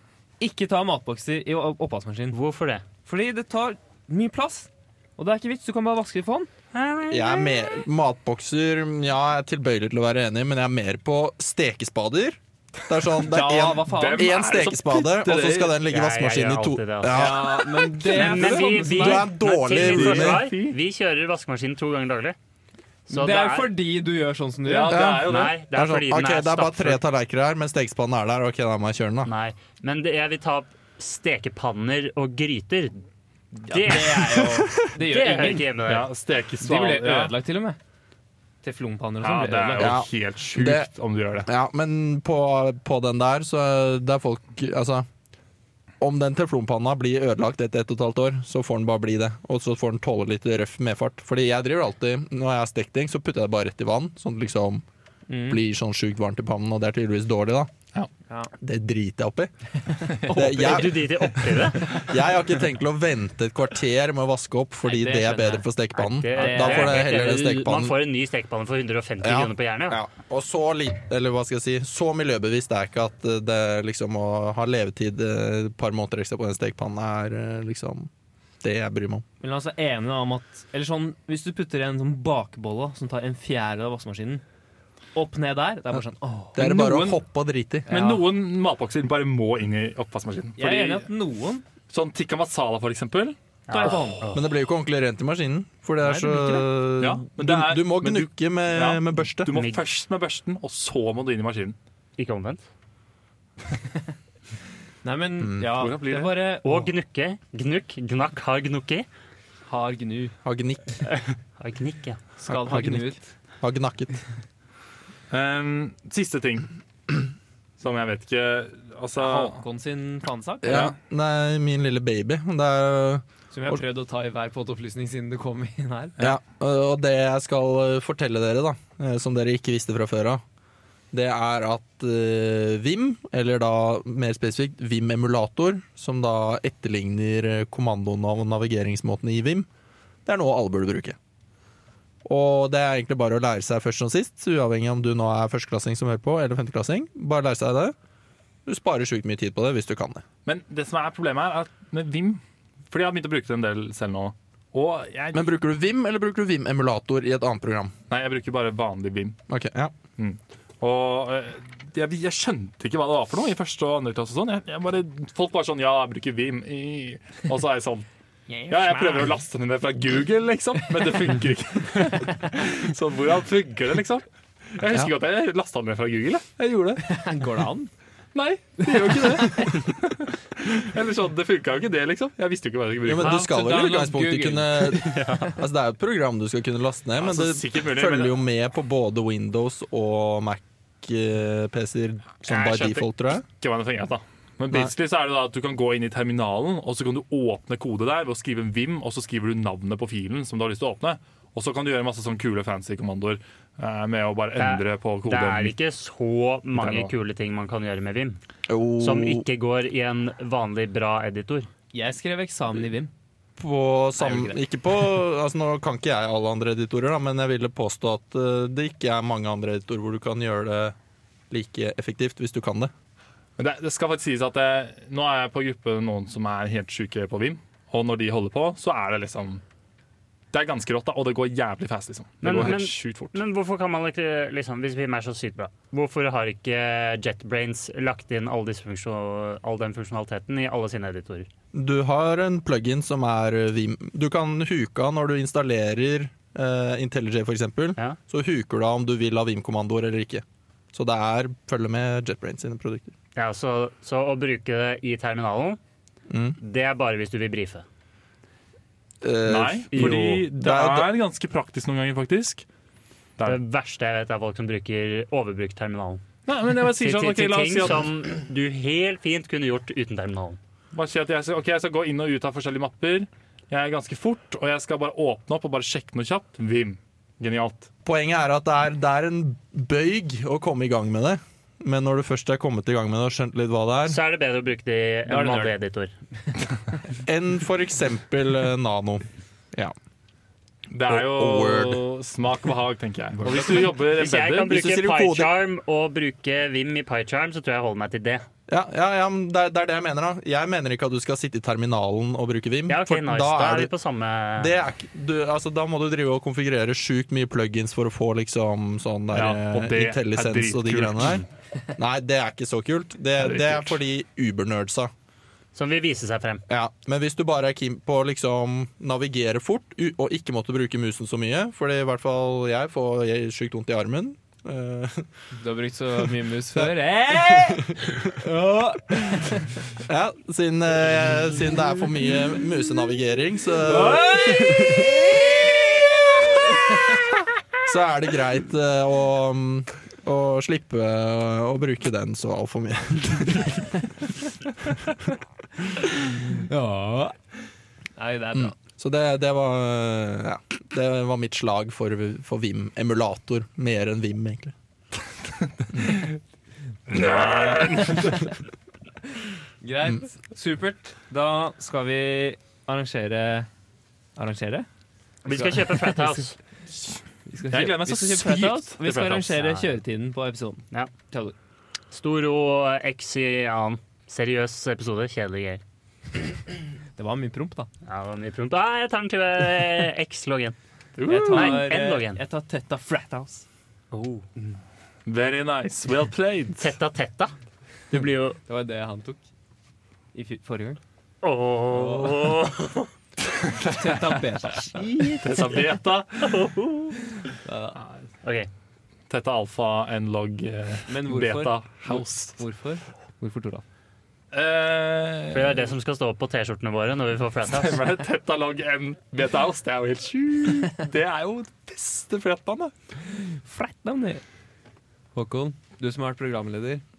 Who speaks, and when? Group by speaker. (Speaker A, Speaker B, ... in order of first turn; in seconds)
Speaker A: 0.4-2.4, 3.0-6.5, 13.2-14.4, 17.1-19.3, 23.1-25.1, 33.7-35.7, 36.6-37.8, 38.6-40.0, 55.3-55.6, 64.8-65.7, 66.3-67.2, 79.4-84.4, 85.2-87.2, 87.9-88.2, 90.6-91.6, 93.7-94.3, 96.0-96.7, 105.0-106.9, 109.7-110.3, 112.4-113.2, 119.2-120.9, 123.5-126.2, 168.5-169.4, 177.0-177.9, 178.8-179.8, 183.5-185.2, 211.9-213.1, 214.2-214.6, 285.3-285.8, 325.6-329.8, 333.8-337.3, 346.3-347.4, 348.2-348.7, 359.8-363.7, 364.4-364.9, 365.5-366.4, 367.5-371.6, 377.2-377.9, 381.3-383.6, 388.7-389.4, 390.3-391.0, 391.9-392.6, 393.9-395.6, 397.6-398.0, 401.1-403.8, 413.4-414.4, 415.4-417.0
Speaker B: 2.3-2.8, 6.7-7.6, 15.9-17.4, 18.0-22.4, 23.1-23.7, 25.2-27.0, 29.3-33.0, 33.7-36.1, 60.3-62.1, 66.0-70.0, 93.7-94.4, 99.5-99.8, 102.2-102.7, 106.6-109.1, 111.1-112.2, 183.2-183.6, 184.9-185.6, 192.5-193.1, 204.6-208.4, 209.0-211.7, 232.4-241.5, 253.3-255.8, 256.6-257.9, 259.9-260.4, 263.5-266.2, 266.8-270.6, 284.1-286.1, 293.6-298.5, 302.9-304.7, 315.7-316.6, 365.4-366.6, 372.1-375.8, 378.1-380.8, 381.5-382.4, 384.1-384.5, 386.8-387.5, 388.1-388.6, 391.4-393.1, 396.4-397.2, 398.4-398.7, 405.5-408.0
Speaker C: 7.1-20.4, 24.9-29.3, 34.4-34.9, 39.8-40.9, 41.4-45.1, 46.0-54.8, 55.5-57.7, 58.6-59.5, 60.2-68.0, 69.2-78.1, 78.6-79.2, 86.5-87.9, 94.3-99.6, 105.4-105.7, 110.4-111.0, 112.5-114.2, 120.6-123.8, 126.2-130.4, 131.1-139.7, 140.3-141.2, 142.2-147.9, 148.7-150.2, 155.3-157.9, 159.5-159.9, 183.0-193.4, 208.7-209.5, 213.6-220.9, 221.5-222.9, 241.7-253.1, 256.3-256.6, 259.2-261.1, 278.1-284.2, 287.3-289.9, 291.1-292.0, 294.7-295.5, 298.7-303.9, 304.6-311.4, 312.0-315.1, 316.7-325.3, 326.8-328.4, 330.0-335.1, 337.9-344.2, 344.9-345.2, 348.5-354.7
Speaker D: 13.8-15.8, 19.4-20.8, 24.6-25.6, 35.9-37.4, 39.2-41.5, 60.1-62.0, 87.9-91.1, 91.9-94.1, 97.0-101.8, 105.7-106.3, 115.3-117.2, 117.8-119.6, 120.7-121.0, 150.4-155.5, 158.1-159.4, 160.2-168.1, 168.7-177.2, 178.3-183.5, 187.2-188.4, 193.5-205.8, 206.8-207.1, 223.6-229.6, 230.5-233.4, 259.5-262.6, 266.5-268.1, 270.9-277.9, 290.9-294.8, 309.3-311.4, 313.4-314.0, 355.9-356.4, 357.1-358.5, 367.7-369.6, 381.2-381.8, 385.3-386.9, 393.4-396.6, 398.0-398.3, 399.3-402.6, 404.5-405.9, 407.7-412.9